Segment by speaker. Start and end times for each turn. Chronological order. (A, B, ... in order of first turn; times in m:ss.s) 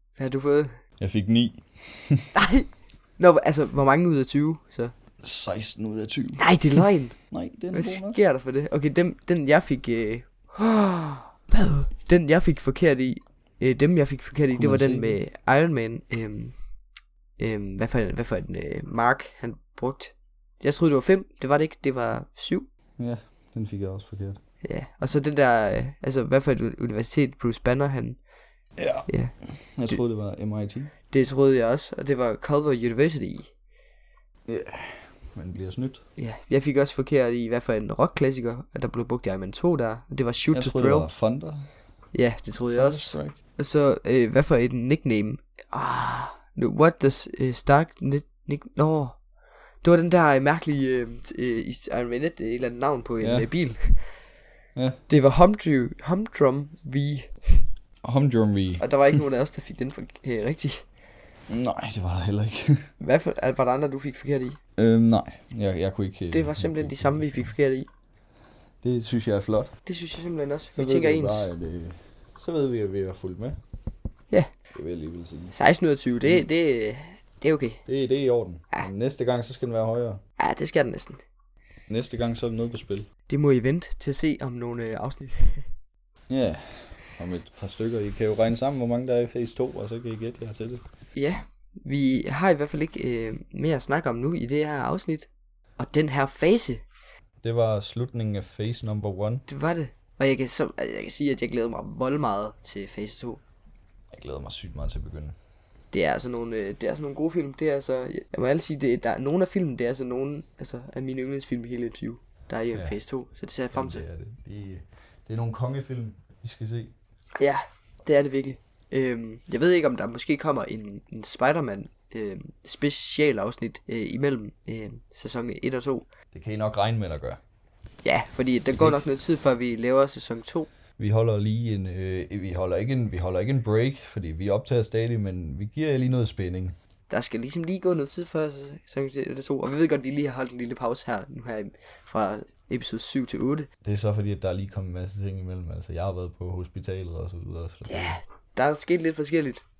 0:00.2-0:00.8 A
0:01.0-0:02.3 B
0:02.3-0:04.9 A
0:05.2-0:08.2 B
0:06.4-0:07.1 A
0:07.7-0:16.6 A
0:14.5-0:15.2 B
0:17.4-0:22.7 A
0:23.0-0:24.4 B
0:24.6-0:28.2 A
0:28.8-0:30.9 B
0:29.1-0:29.3 A
0:31.1-0:33.5 A
0:34.4-0:36.0 B
0:36.2-0:41.1 A
0:40.5-0:41.7 B
0:42.1-0:49.2 A
0:42.7-0:43.4 B
0:49.8-0:54.2 A
0:53.2-0:53.5 B
0:55.1-0:57.6 A
0:58.0-0:59.2 B
0:58.8-1:00.8 A
1:01.5-1:02.9 B
1:03.0-1:04.6 A
1:04.8-1:07.5 B
1:06.3-1:07.9 A
1:08.8-1:09.7 B
1:09.8-1:11.5 A
1:10.8-1:13.6 B
1:14.7-1:15.5 B
1:15.5-1:17.8 A
1:17.8-1:20.2 B
1:20.4-1:21.2 A
1:21.9-1:23.1 B
1:23.3-1:25.7 A
1:26.3-1:30.8 B
1:31.2-1:36.8 A
1:37.4-1:39.4 B
1:39.5-1:43.4 A
1:44.1-1:45.4 B
1:45.9-1:54.0 A
1:53.7-1:56.9 B
1:57.4-2:06.1 A
2:06.3-2:07.4 B
2:08.0-2:10.7 A
2:08.7-2:09.0 B
2:11.0-2:16.7 B
2:17.1-2:23.7 A
2:23.8-2:28.2 B
2:27.9-2:29.6 A